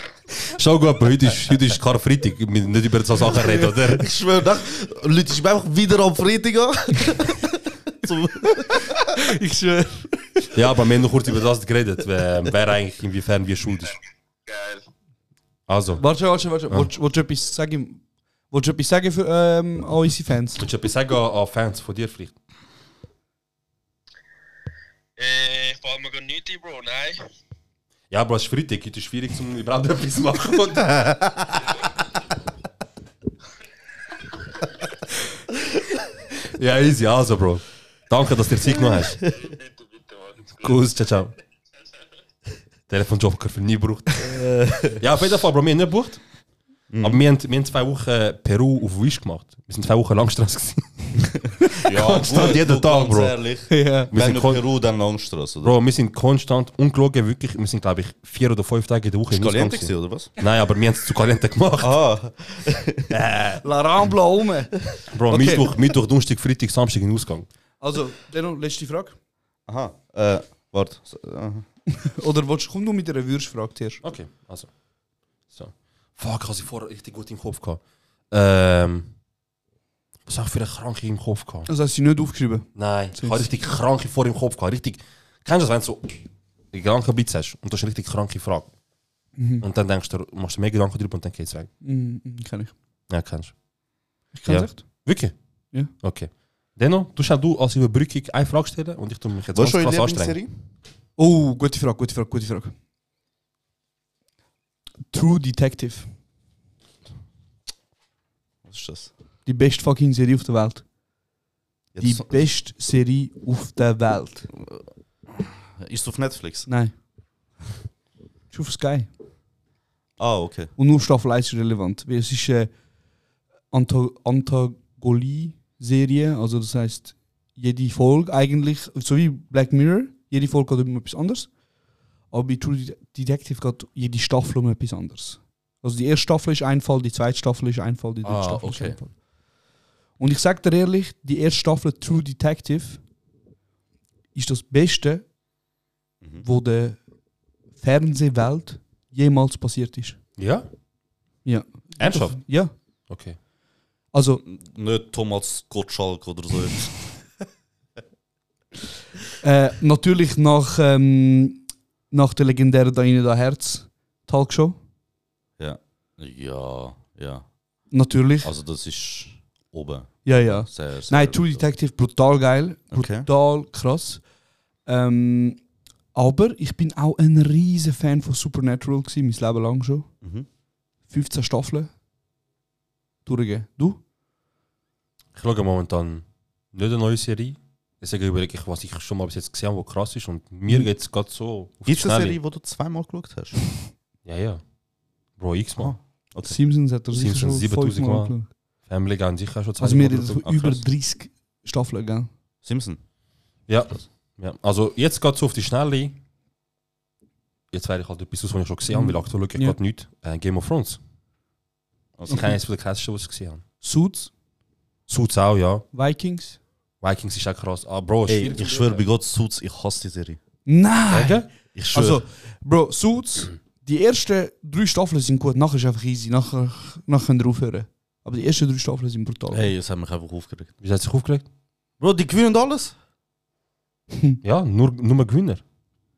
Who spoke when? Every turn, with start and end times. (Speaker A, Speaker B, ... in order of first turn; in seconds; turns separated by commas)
Speaker A: 0.5-4.1, Speaker B: 4.0-9.0, Speaker C: 9.2-10.3, Speaker A: 10.5-14.0, Speaker D: 14.4-14.9, Speaker A: 15.7-16.0, Speaker C: 16.0-20.7, Speaker A: 20.6-22.4, Speaker D: 25.2-27.2, Speaker A: 28.1-31.2, Speaker A: 36.5-39.2, Speaker D: 39.2-40.8, Speaker A: 40.6-41.3, Speaker A: 42.9-44.3, Speaker B: 44.3-45.0, Speaker A: 44.9-46.2, Speaker B: 46.9-47.2, Speaker A: 47.0-54.6, Speaker B: 51.8-55.8, Speaker C: 53.7-54.1, Speaker A: 55.6-62.0, Speaker B: 59.3-60.3, Speaker B: 61.8-63.0, Speaker A: 63.1-63.6, Speaker C: 63.6-65.7, Speaker A: 65.1-67.5, Speaker C: 67.8-69.2, Speaker B: 69.7-71.7, Speaker C: 72.0-74.0, Speaker A: 74.0-74.7, Speaker A: 75.5-79.1, Speaker A: 80.3-81.7, Speaker C: 81.7-83.5, Speaker A: 82.8-88.8, Speaker C: 89.4-89.6, Speaker A: 89.6-91.7, Speaker C: 91.8-92.8, Speaker A: 93.1-93.6, Speaker C: 94.3-95.1, Speaker A: 94.5-100.4, Speaker B: 99.5-100.6, Speaker C: 101.2-102.8, Speaker C: 105.1-106.2, Speaker B: 108.7-109.1, Speaker C: 109.5-110.9, Speaker B: 111.9-112.5, Speaker C: 112.0-114.5, Speaker B: 114.6-116.7, Speaker C: 116.7-117.0, Speaker C: 118.5-119.1, Speaker B: 120.2-120.7, Speaker C: 120.8-122.7, Speaker C: 123.7-131.6, Speaker C: 132.3-139.2, Speaker A: 138.2-138.6, Speaker B: 138.3-139.0, Speaker C: 140.2-143.0, Speaker C: 144.3-145.3, Speaker C: 146.4-147.0, Speaker C: 147.8-150.2, Speaker A: 150.4-150.7, Speaker C: 151.4-152.7, Speaker A: 152.0-152.5, Speaker A: 153.1-153.4, Speaker C: 154.1-154.4, Speaker B: 154.4-156.9, Speaker C: 159.4-164.8, Speaker B: 165.6-167.9, Speaker C: 167.9-168.5, Speaker B: 168.4-171.7, Speaker C: 170.2-174.3, Speaker B: 172.9-173.3, Speaker C: 174.8-175.6, Speaker C: 176.1-180.2, Speaker C: 181.1-181.9, Speaker C: 183.2-184.0, Speaker A: 185.3-192.4, Speaker B: 191.9-193.6, Speaker A: 194.2-194.6, Speaker A: 195.3-196.0, Speaker B: 195.8-196.6, Speaker C: 196.4-198.5, Speaker A: 197.1-200.5, Speaker C: 199.8-202.3, Speaker B: 200.4-200.8, Speaker B: 202.6-203.0, Speaker A: 203.7-206.2, Speaker A: 207.7-211.0, Speaker C: 208.9-209.8, Speaker B: 212.2-212.5, Speaker A: 212.3-213.6, Speaker C: 213.8-214.3, Speaker A: 215.1-215.9, Speaker C: 215.9-216.6, Speaker A: 217.0-219.1, Speaker B: 218.3-220.4, Speaker C: 220.7-229.7, Speaker A: 221.1-221.5, Speaker B: 221.7-222.2, Speaker B: 229.5-230.7, Speaker A: 230.8-231.5, Speaker B: 232.0-233.0, Speaker A: 234.4-235.6